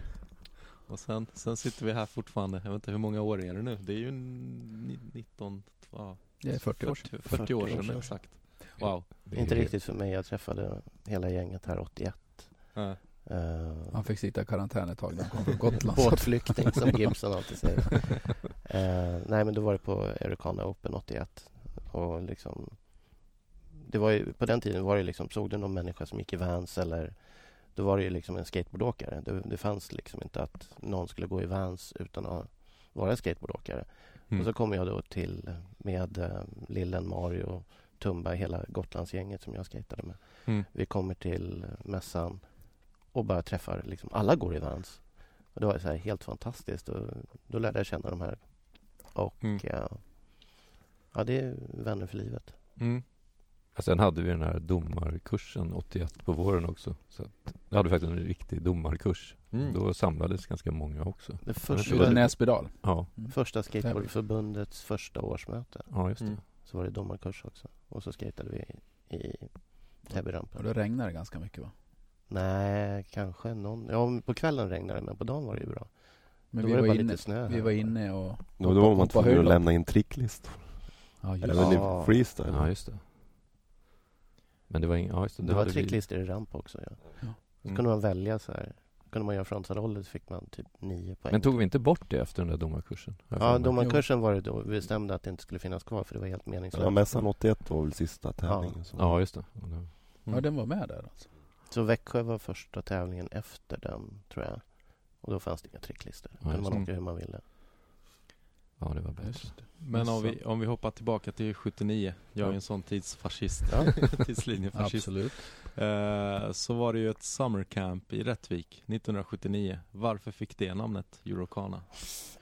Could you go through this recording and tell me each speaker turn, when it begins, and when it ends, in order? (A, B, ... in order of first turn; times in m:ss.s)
0:00.9-0:09.1 A
0:06.4-0:07.7 B
0:07.3-0:08.4 C
0:08.9-0:09.7 D
0:09.3-0:14.2 C
0:13.9-0:17.1 B
0:15.8-0:52.6 C
0:52.8-0:53.0 A
0:53.7-1:03.1 D
0:59.5-0:59.8 A
1:01.4-1:10.7 C
1:01.8-1:04.1 B
1:05.9-1:06.4 D
1:10.1-1:11.7 B
1:12.3-1:18.2 C
1:16.5-1:19.8 B
1:18.6-1:22.8 E
1:21.2-1:21.9 B
1:21.5-1:22.3 C
1:22.3-1:23.1 D
1:24.7-1:26.0 D
1:25.4-1:31.7 C
1:31.3-1:33.8 D
1:33.4-1:37.6 C
1:33.8-1:34.1 B
1:36.7-1:39.2 E
1:38.5-1:38.8 C
1:39.0-1:39.9 D
1:40.3-1:41.3 B
1:41.7-1:47.4 C
1:46.4-1:46.8 D
1:48.8-1:49.6 D
1:49.2-1:50.4 B
1:49.8-2:02.1 A
1:54.7-1:55.5 B